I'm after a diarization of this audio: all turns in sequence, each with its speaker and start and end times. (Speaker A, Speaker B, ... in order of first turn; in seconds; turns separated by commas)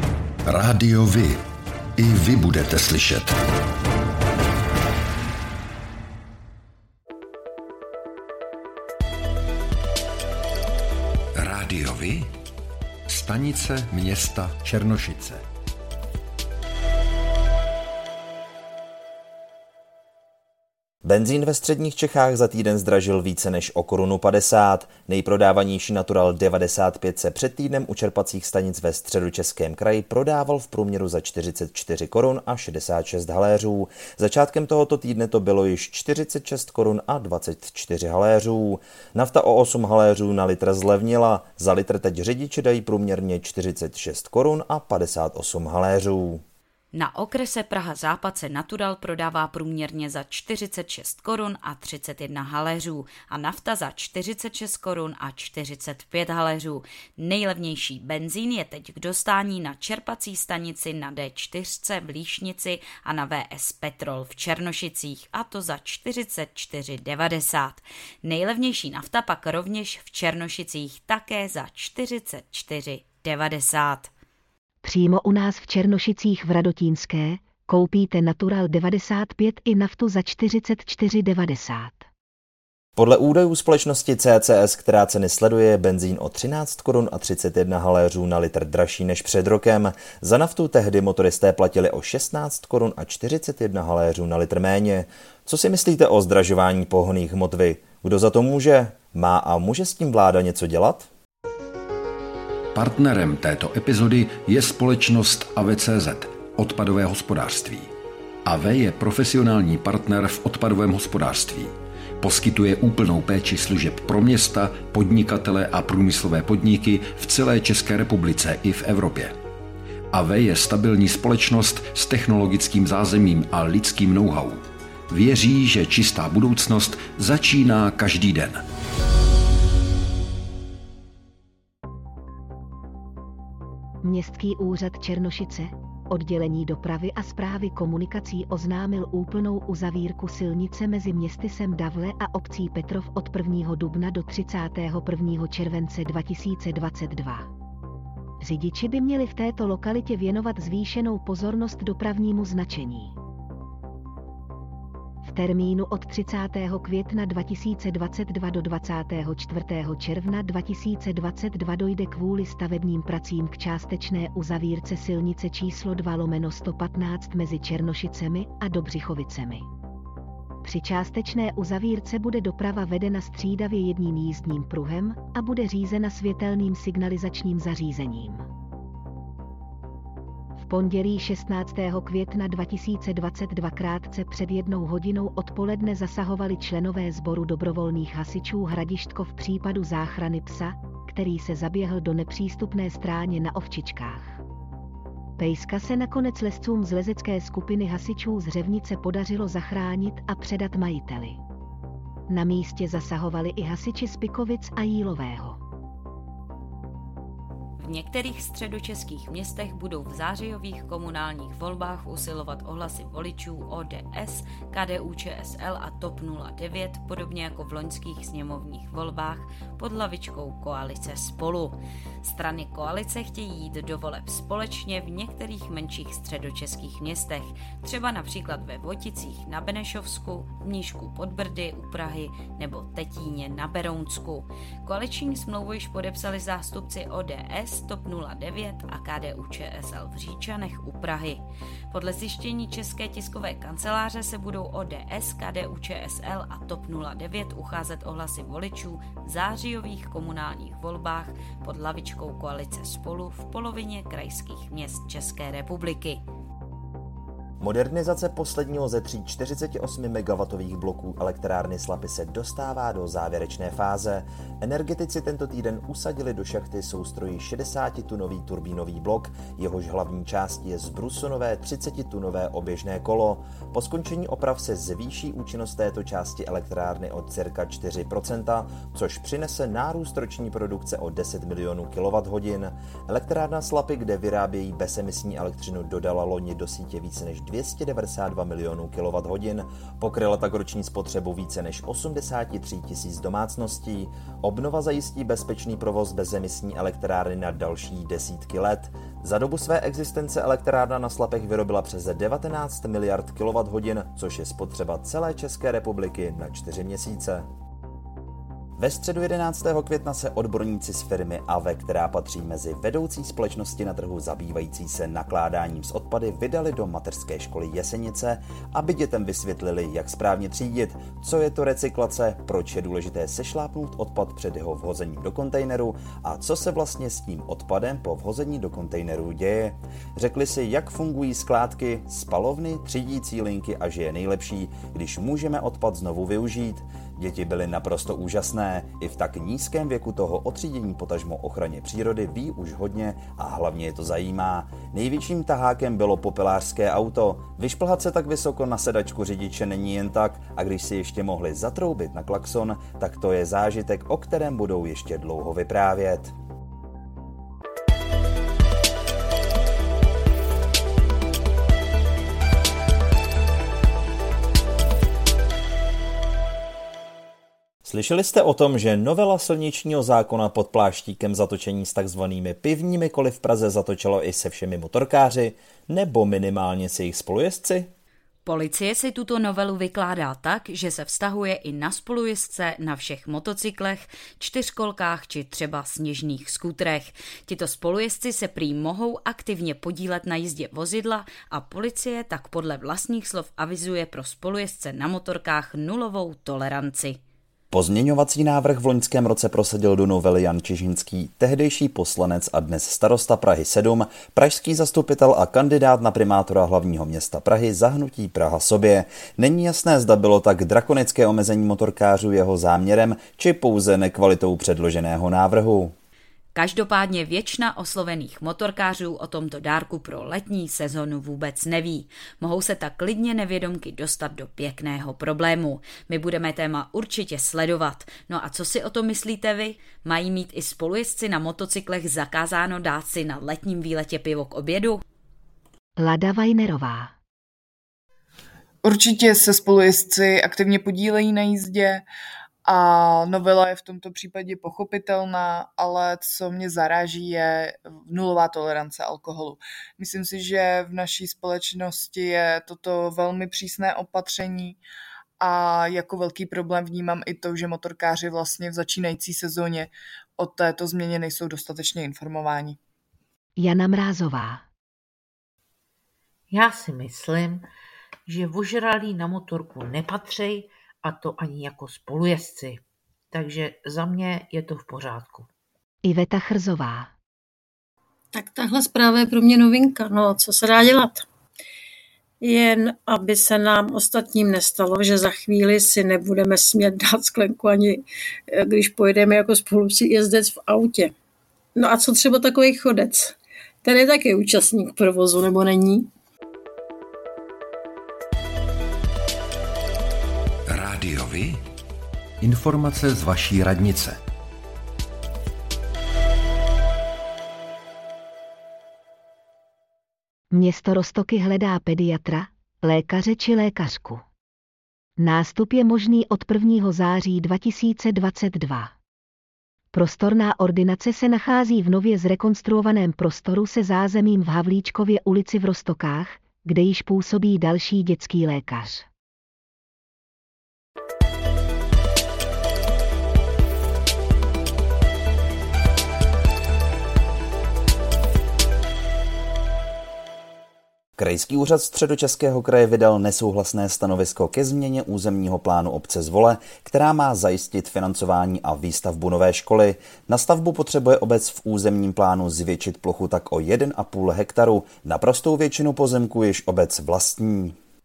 Speaker A: 0.5-1.4, Speaker A: 2.0-3.4, Speaker A: 11.4-12.3, Speaker A: 13.1-15.4, Speaker B: 21.0-46.4, Speaker C: 46.9-74.1, Speaker D: 74.8-82.1, Speaker B: 83.0-101.1, Speaker A: 102.8-107.9, Speaker A: 108.5-119.3, Speaker A: 120.1-128.6, Speaker D: 134.0-147.5, Speaker D: 148.4-153.2, Speaker D: 155.2-169.7, Speaker D: 170.6-178.5, Speaker D: 180.6-194.4, Speaker D: 195.4-201.4, Speaker D: 202.3-205.6, Speaker C: 207.8-256.2, Speaker B: 257.6-307.5, Speaker B: 308.8-356.3, Speaker B: 367.8-377.9, Speaker C: 378.4-397.2, Speaker B: 397.7-415.9, Speaker C: 416.6-435.0, Speaker D: 436.0-437.1, Speaker E: 438.8-442.1, Speaker E: 442.6-454.8, Speaker E: 455.4-462.8, Speaker D: 463.6-464.7, Speaker F: 466.5-467.7, Speaker F: 468.3-475.5, Speaker D: 476.0-477.1, Speaker G: 478.3-481.3, Speaker G: 482.4-491.1, Speaker G: 491.8-496.1, Speaker A: 500.7-501.6, Speaker A: 502.4-504.2, Speaker D: 510.5-514.2, Speaker D: 515.2-519.0, Speaker D: 519.9-529.1, Speaker B: 541.2-557.8